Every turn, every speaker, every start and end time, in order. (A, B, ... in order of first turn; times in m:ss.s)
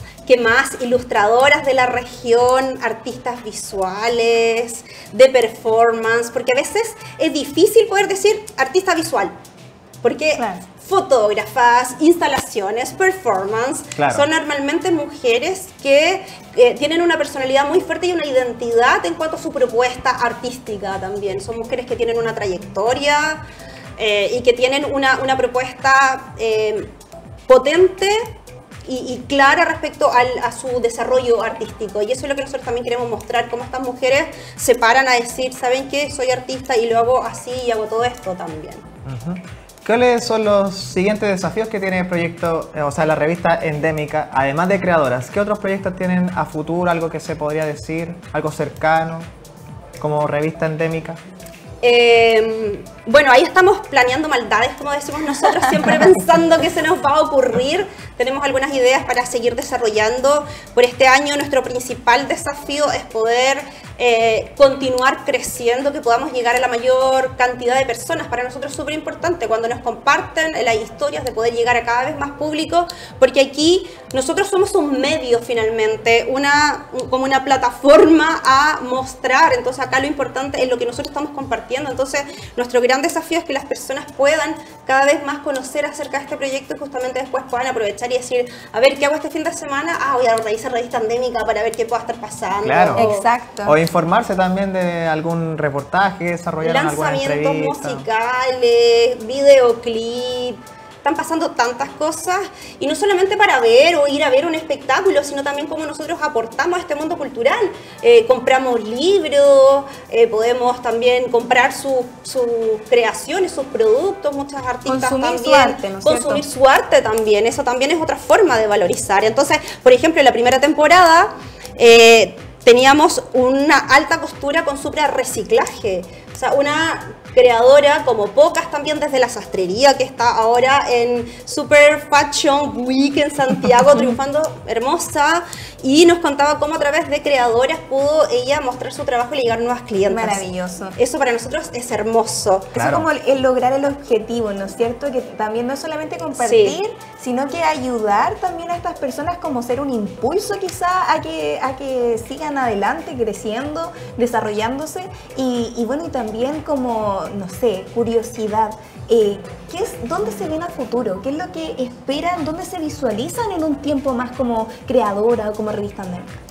0:00.3-0:09.4 A
0:10.0-0:23.4 A
0:10.4-0:10.6 B
0:14.0-0:14.3 C
0:24.0-0:26.9 A
0:27.5-0:28.3 A
0:28.9-0:38.8 A
0:39.0-0:49.3 C
0:50.0-0:51.2 C
0:51.8-1:33.2 A
1:32.6-1:33.1 C
1:33.0-1:33.8 B
1:33.6-1:38.1 C
1:36.6-2:20.4 A
1:54.9-1:56.4 B
2:20.1-2:21.0 B
2:21.0-2:22.7 A
2:22.8-2:23.1 C
2:22.8-2:46.3 B
2:26.4-2:26.8 A